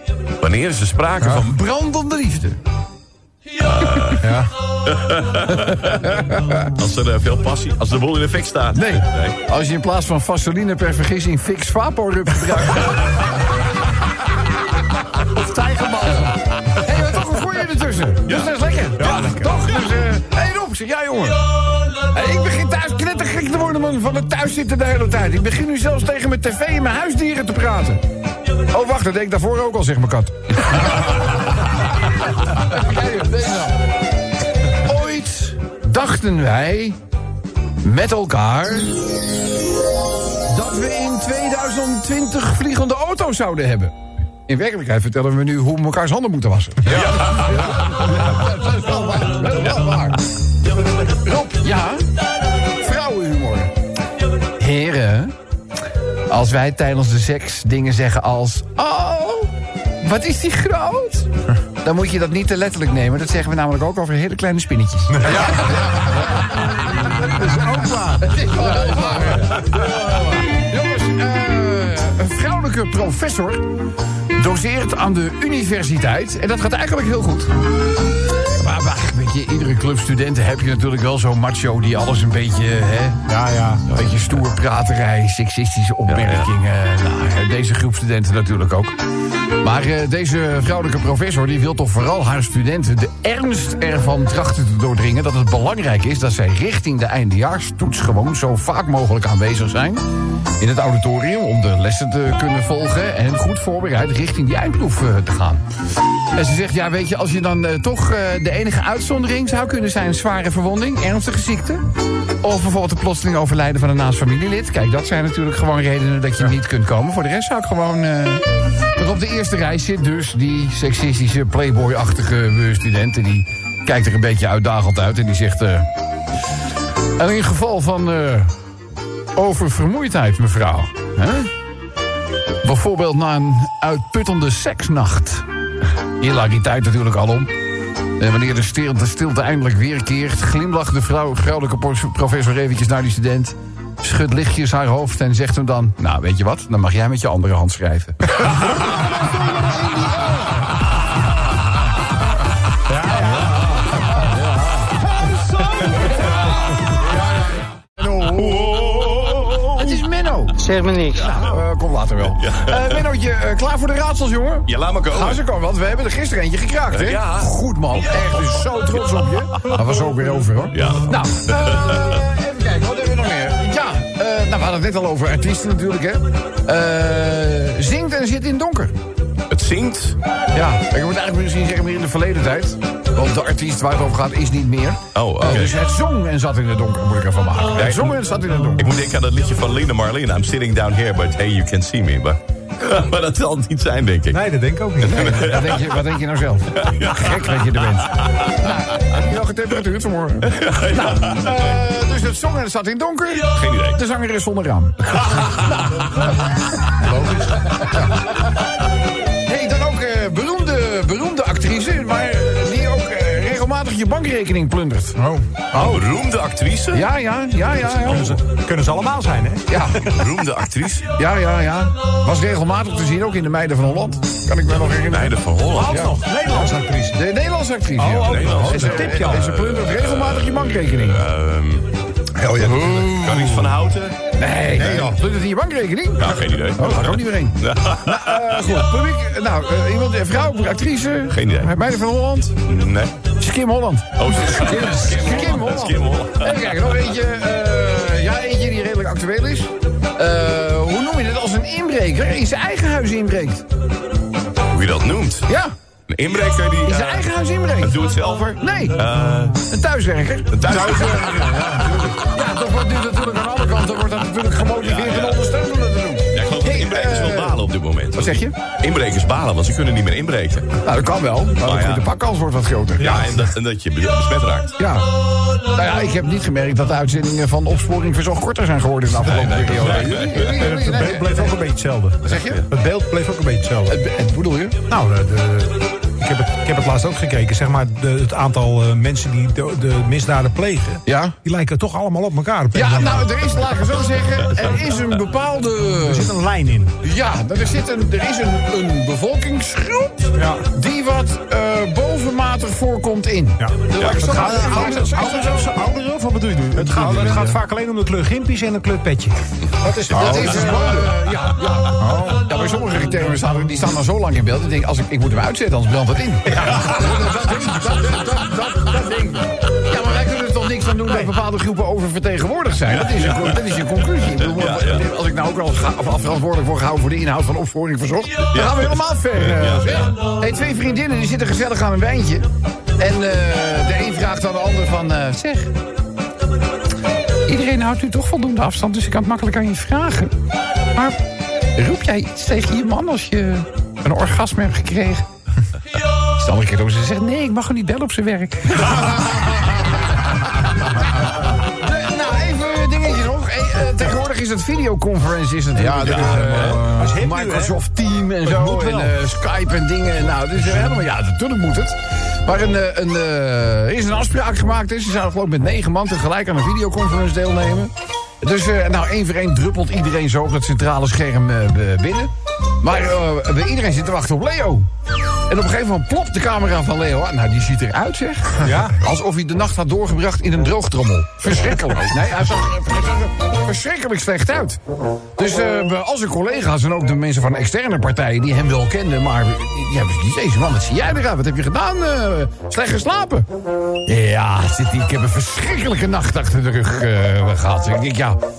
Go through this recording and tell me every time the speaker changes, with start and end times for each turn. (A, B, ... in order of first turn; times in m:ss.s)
0:00.4-0:01.5 A
0:01.2-0:02.6 B
0:03.6-0:04.3 A
0:04.9-0:06.0 A
0:06.0-0:06.7 B
0:06.8-0:09.4 A
0:08.7-0:13.4 B
0:15.4-0:21.4 B
0:22.1-0:28.0 B
0:28.7-0:31.3 B
0:32.5-0:33.8 B
0:34.8-0:37.0 B
0:37.8-0:39.0 B
0:40.5-0:44.0 B
0:44.5-0:50.2 B
0:46.9-0:48.0 A
0:51.1-0:52.0 B
0:52.8-0:53.7 B
0:54.6-0:55.3 B
0:56.3-1:01.3 B
1:01.8-1:13.6 B
1:05.5-1:06.1 C
1:07.4-1:08.0 D
1:07.6-1:08.1 C
1:14.3-1:17.5 B
1:18.6-1:23.2 B
1:23.3-1:23.8 D
1:23.9-1:24.4 A
1:23.9-1:28.9 B
1:26.1-1:26.5 A
1:29.6-1:40.1 B
1:40.6-1:45.6 B
1:46.3-1:51.8 B
1:52.4-2:05.9 B
2:07.2-2:08.5 B
2:09.4-2:11.5 B
2:12.6-2:15.5 B
2:16.2-2:17.5 B
2:18.2-2:28.3 B
2:29.4-2:30.2 C
2:32.9-2:33.6 D
2:33.2-2:34.4 B
2:34.9-2:38.7 B
2:38.2-2:40.0 A
2:39.8-2:59.0 B
2:42.4-2:43.0 A
2:44.7-2:45.4 A
2:46.9-2:49.6 A
2:50.7-2:52.2 A
2:59.5-3:00.2 A
3:00.5-3:08.9 B
3:05.2-3:05.8 A
3:07.8-3:08.2 A
3:08.8-3:14.5 A
3:14.3-3:15.4 D
3:15.0-3:16.0 A
3:15.0-3:26.5 B
3:16.7-3:18.7 A
3:20.5-3:21.5 A
3:23.6-3:24.0 A
3:25.3-3:25.6 A
3:27.8-3:28.1 B
3:29.5-3:36.1 B
3:35.7-3:37.1 A
3:36.9-3:38.4 B
3:37.9-3:39.9 D
3:38.1-3:38.3 A
3:39.7-3:40.1 B
3:40.0-3:41.1 A
3:41.1-3:51.2 B
3:45.1-3:46.1 A
3:45.7-3:47.3 D
3:48.0-3:49.6 D
3:48.2-3:51.9 A
3:52.4-3:53.3 C
3:52.6-3:53.6 B
3:52.9-3:54.2 A
3:54.3-4:02.6 B
3:54.8-3:55.2 C
3:56.2-3:58.8 A
4:01.3-4:01.7 A
4:02.7-4:03.2 A
4:03.4-4:13.6 B
4:04.2-4:06.9 A
4:14.7-4:15.5 A
4:15.5-4:15.7 B
4:16.1-4:17.3 A
4:16.8-4:19.0 B
4:17.8-4:19.6 A
4:19.7-4:21.6 B
4:20.5-4:22.1 A
4:20.7-4:21.9 C
4:22.1-4:28.5 B
4:24.8-4:25.4 A
4:26.3-4:30.8 A
4:30.8-4:33.3 B
4:31.6-4:32.1 A
4:33.0-4:33.5 D
4:33.0-4:34.8 A
4:34.8-4:35.1 B
4:35.7-4:41.6 B
4:39.2-4:40.6 A
4:39.3-4:44.0 D
4:42.2-4:42.6 B
4:43.9-4:44.8 B
4:44.9-4:53.6 D
4:51.1-4:51.4 B
4:52.7-4:56.3 B
4:56.0-4:57.0 D
4:57.0-5:05.7 B
5:00.4-5:00.7 D
5:03.6-5:11.2 D
5:04.0-5:04.6 A
5:04.4-5:05.0 C
5:06.8-5:07.6 C
5:06.9-5:07.5 B
5:10.1-5:32.5 B
5:10.2-5:11.0 C
5:12.0-5:12.4 D
5:16.5-5:17.3 D
5:22.9-5:25.1 A
5:28.4-5:30.2 A
5:33.0-5:35.7 B
5:37.5-5:40.3 B
5:40.9-5:41.2 B
5:41.8-5:45.3 B
5:46.4-5:49.4 B
5:51.3-6:14.9 B
5:55.8-5:57.0 C
5:55.9-5:57.8 D
5:58.4-5:59.2 D
6:15.5-6:24.8 B
6:18.6-6:19.0 D
6:25.4-6:33.5 B
6:34.1-6:38.4 B